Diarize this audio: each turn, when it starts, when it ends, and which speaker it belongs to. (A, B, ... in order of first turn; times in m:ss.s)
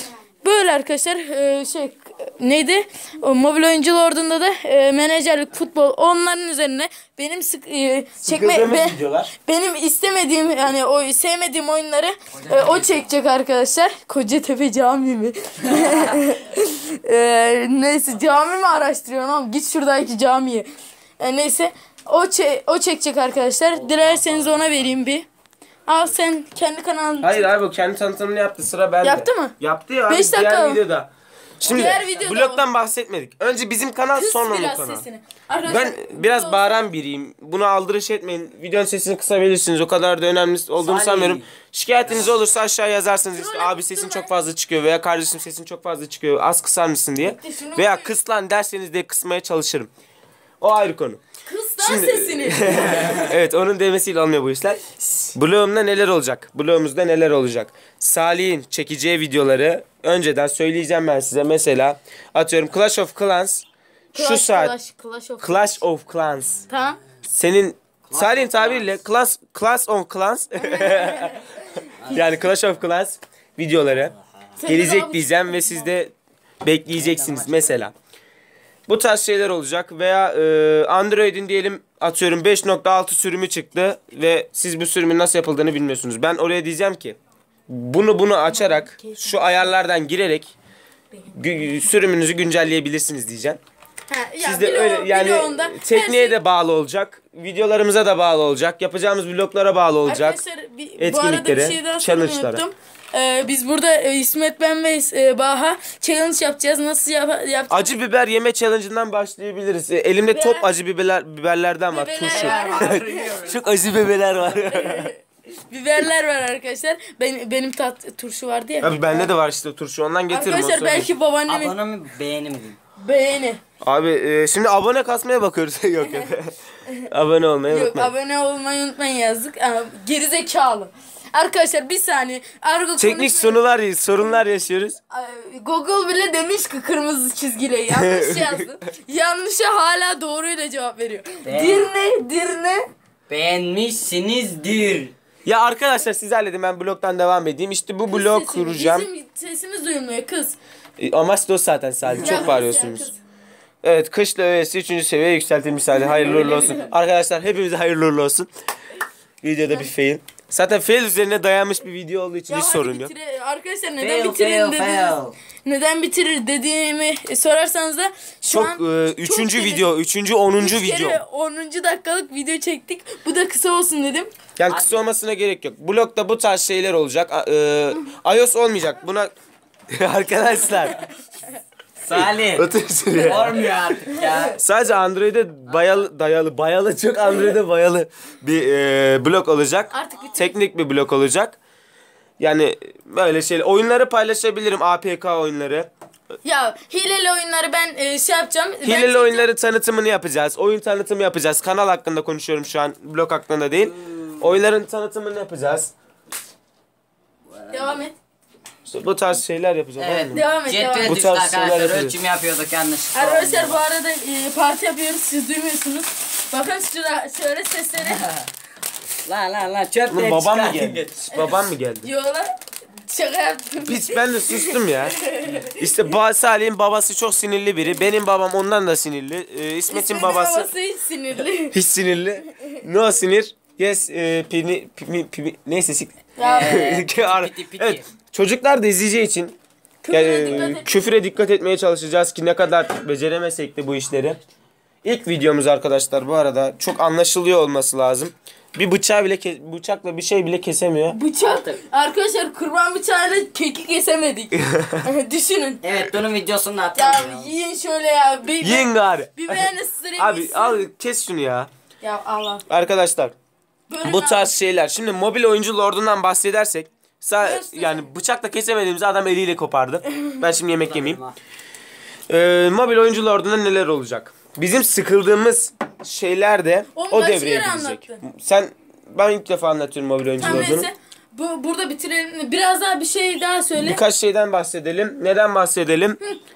0:00.4-0:20.7 A
0:08.2-0:09.3 B
0:15.7-0:16.1 C
0:21.2-0:25.2 A
0:23.7-0:24.8 C
0:25.9-0:27.5 A
0:27.2-0:31.1 B
0:29.0-0:29.5 A
0:30.1-0:30.8 A
0:31.6-0:35.0 B
0:31.6-0:32.7 A
0:34.1-0:36.9 A
0:35.6-0:49.9 B
0:40.8-0:41.5 C
0:43.3-0:44.3 A
0:47.2-0:48.1 A
0:50.6-0:51.2 B
0:51.4-0:53.2 A
0:51.8-0:54.8 B
0:55.3-1:04.7 B
1:04.1-1:05.8 A
1:05.4-1:06.6 B
1:06.7-1:07.0 A
1:07.2-1:11.4 B
1:08.1-1:09.0 C
1:10.6-1:12.1 A
1:12.0-1:12.2 C
1:12.1-1:14.1 B
1:14.6-1:15.8 A
1:14.6-1:17.9 B
1:17.0-1:17.8 C
1:18.9-1:27.2 B
1:27.7-1:30.5 B
1:28.5-1:29.6 A
1:31.4-1:33.6 B
1:34.1-1:36.4 A
1:34.4-1:40.4 B
1:40.0-1:48.0 A
1:41.0-1:42.6 B
1:47.7-1:55.1 B
1:50.3-1:50.7 A
1:51.9-1:53.3 A
1:52.3-1:53.6 C
1:54.6-1:59.3 A
1:58.8-2:01.1 B
2:00.3-2:01.8 A
2:01.4-2:02.8 C
2:03.0-2:03.6 A
2:03.8-2:06.5 B
2:06.0-2:06.3 A
2:07.0-2:08.1 B
2:07.7-2:13.6 A
2:13.0-2:15.0 B
2:15.1-2:22.8 A
2:17.9-2:18.7 B
2:21.4-2:21.9 C
2:23.3-2:25.1 C
2:25.4-2:29.1 B
2:28.1-2:30.6 A
2:31.0-2:33.1 B
2:32.1-2:32.5 C
2:32.2-2:33.2 A
2:33.8-2:38.5 B
2:36.0-2:36.9 A
2:36.2-2:36.8 C
2:39.4-2:43.1 B
2:42.5-2:49.9 A
2:44.0-2:45.3 C
2:48.5-2:51.2 B
2:50.6-2:54.3 A
2:54.6-2:59.3 B
2:59.9-3:01.0 B
3:02.0-3:04.6 C
3:02.1-3:03.8 B
3:04.6-3:11.6 B
3:05.7-3:06.0 C
3:09.9-3:10.6 A
3:12.4-3:15.9 B
3:16.4-3:19.5 A
3:18.8-3:25.9 B
3:24.0-3:24.6 C
3:27.6-3:28.0 C
3:27.7-3:28.1 A
3:28.8-3:30.4 B
3:30.0-3:33.8 C
3:30.3-3:31.2 A
3:31.0-3:32.2 B
3:33.1-3:38.2 A
3:38.0-3:38.5 C
3:39.2-3:41.4 C
3:40.1-3:42.1 B
3:41.3-3:42.5 A
3:43.0-3:45.9 A
3:43.8-3:45.2 B
3:45.7-3:50.7 B
3:49.9-3:51.8 A
3:51.7-3:59.6 B
3:56.4-3:56.8 A
3:56.4-3:58.1 C
4:00.0-4:01.0 A
4:00.1-4:04.4 B
4:05.0-4:11.2 B
4:11.1-4:15.8 A
4:11.4-4:11.8 C
4:14.6-4:15.0 B
4:15.8-4:17.5 C
4:16.9-4:20.8 A
4:18.6-4:21.7 B
4:22.0-4:22.6 A
4:22.7-4:23.3 B
4:23.9-4:24.5 A
4:24.0-4:31.2 B
4:27.4-4:28.1 A
4:30.8-4:31.3 C
4:32.3-4:40.9 B
4:36.9-4:38.2 A
4:40.4-4:44.0 A
4:43.8-4:46.2 B